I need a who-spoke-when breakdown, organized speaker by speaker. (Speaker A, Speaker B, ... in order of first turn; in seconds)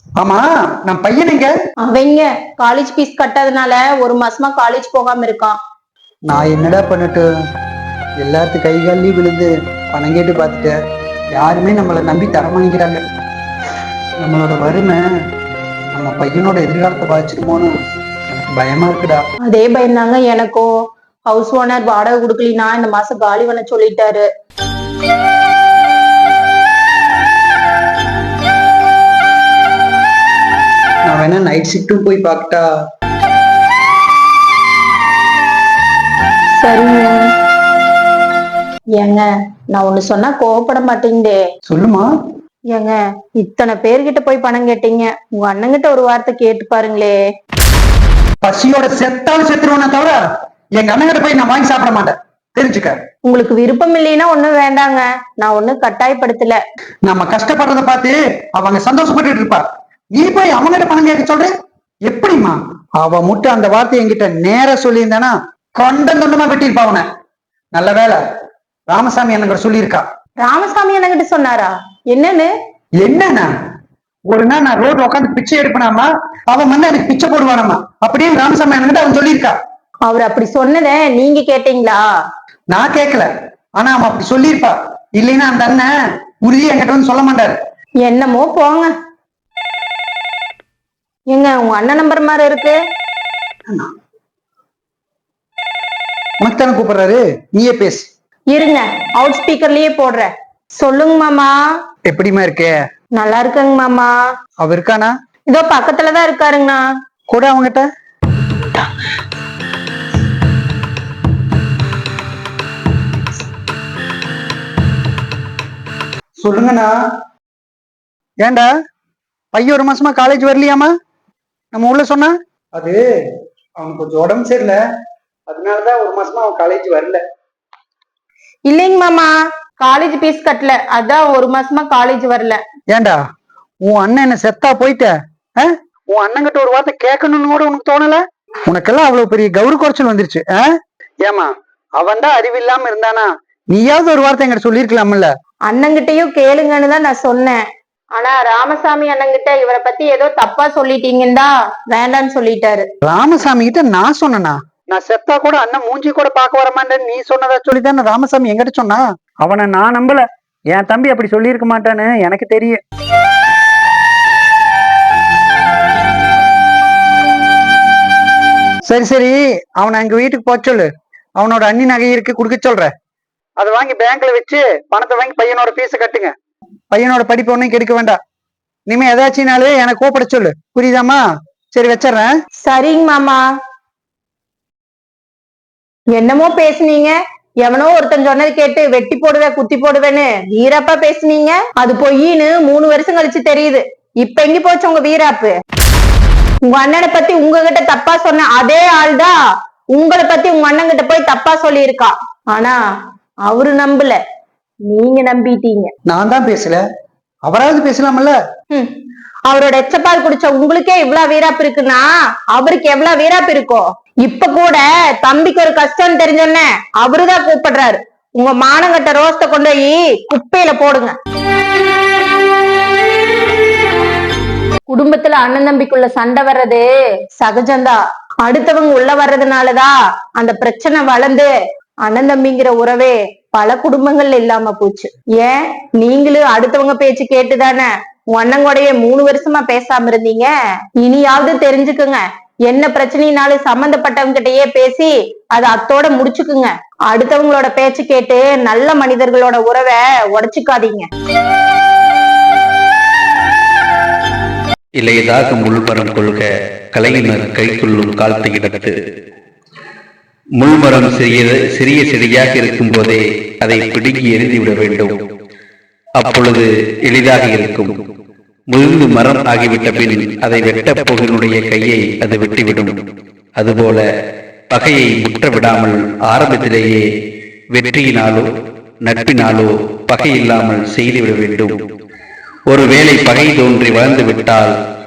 Speaker A: 0.2-1.5, 6.3-7.3, 8.2-10.8, 11.4-13.0, 14.2-15.0, 15.9-17.7, 18.5-19.2, 31.1-32.7, 41.7-42.1, 48.4-50.2, 50.8-53.0, 57.1-61.5, 62.1-67.1, 67.7-68.2, 68.9-70.0, 73.0-73.5, 74.3-79.6, 82.7-87.6, 96.4-98.1, 102.1-102.7, 104.6-105.1, 107.3-107.9, 116.4-117.0, 118.4-118.7, 119.5-120.9, 121.7-123.0, 123.8-124.8, 125.5-127.2, 132.9-133.2, 133.8-140.7, 141.2-145.3, 153.1-162.8, 168.9-170.9, 171.4-172.9, 173.6-176.3, 176.9-178.2, 178.9-181.2, 181.7-182.3, 206.1-206.8, 207.5-208.4
Speaker B: 1.9-5.6, 19.5-20.7, 21.3-24.3, 36.6-37.2, 39.0-41.4, 42.7-47.2, 53.2-56.6, 70.4-72.5, 80.1-82.0, 88.0-88.9, 91.3-92.8, 98.5-101.6, 103.2-104.1, 105.5-106.8, 128.7-132.6, 145.7-147.6, 148.2-152.9, 182.6-183.4, 186.1-195.6, 196.7-199.4, 199.9-202.8, 203.5-204.2, 204.9-205.9, 209.5-221.2, 224.9-231.5, 232.1-251.1
Speaker C: 255.0-258.9, 260.6-265.1, 266.2-267.9, 268.7-272.9, 273.6-274.1, 274.7-277.0, 277.7-278.5, 279.1-281.8, 282.7-284.7